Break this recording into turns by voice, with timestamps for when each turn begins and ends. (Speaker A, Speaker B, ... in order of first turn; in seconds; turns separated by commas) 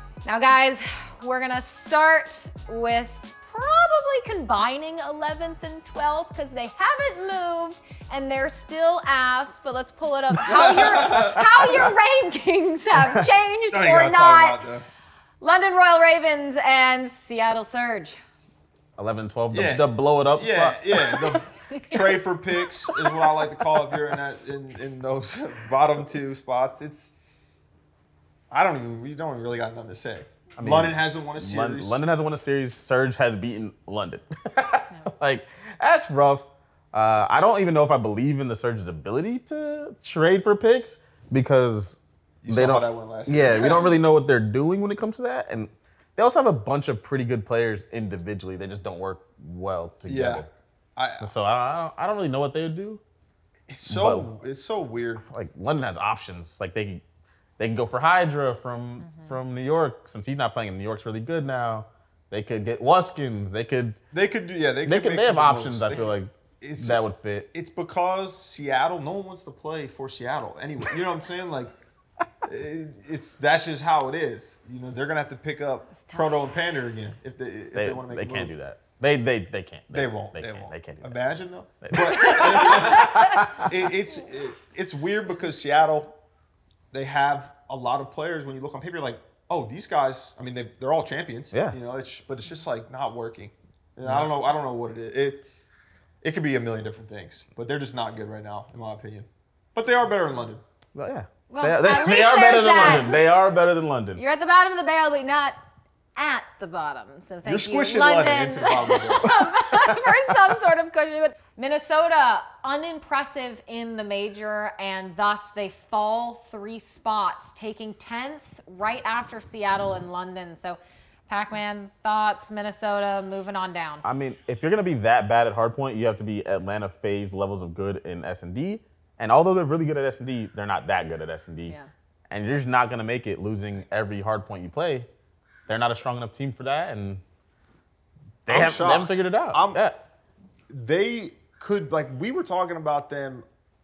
Speaker A: 0.3-14.6, Speaker B: 10.4-11.4, Speaker B: 13.7-14.9, Speaker A: 15.4-18.2, Speaker C: 19.0-20.8, Speaker B: 19.5-27.1, Speaker A: 20.9-24.0, Speaker B: 28.5-32.0, Speaker C: 30.6-50.5, Speaker B: 42.4-44.0, Speaker B: 50.1-50.5, Speaker B: 51.0-51.3, Speaker C: 51.2-53.0, Speaker B: 53.7-55.3, Speaker C: 53.9-54.3, Speaker C: 55.3-57.0, Speaker C: 57.6-64.0, Speaker A: 59.0-59.3, Speaker B: 64.1-71.7, Speaker C: 64.9-67.5, Speaker B: 72.4-78.5, Speaker C: 77.8-81.2, Speaker B: 79.9-86.2, Speaker C: 81.8-83.7, Speaker B: 86.9-95.5, Speaker B: 96.2-100.6, Speaker C: 101.0-104.2, Speaker A: 101.5-103.2, Speaker A: 104.2-105.6, Speaker A: 106.2-124.0, Speaker B: 107.5-109.4, Speaker C: 109.5-110.2, Speaker C: 124.0-131.8, Speaker C: 132.3-135.1, Speaker C: 135.7-137.2, Speaker B: 138.5-139.8, Speaker C: 138.5-140.0, Speaker B: 140.7-143.5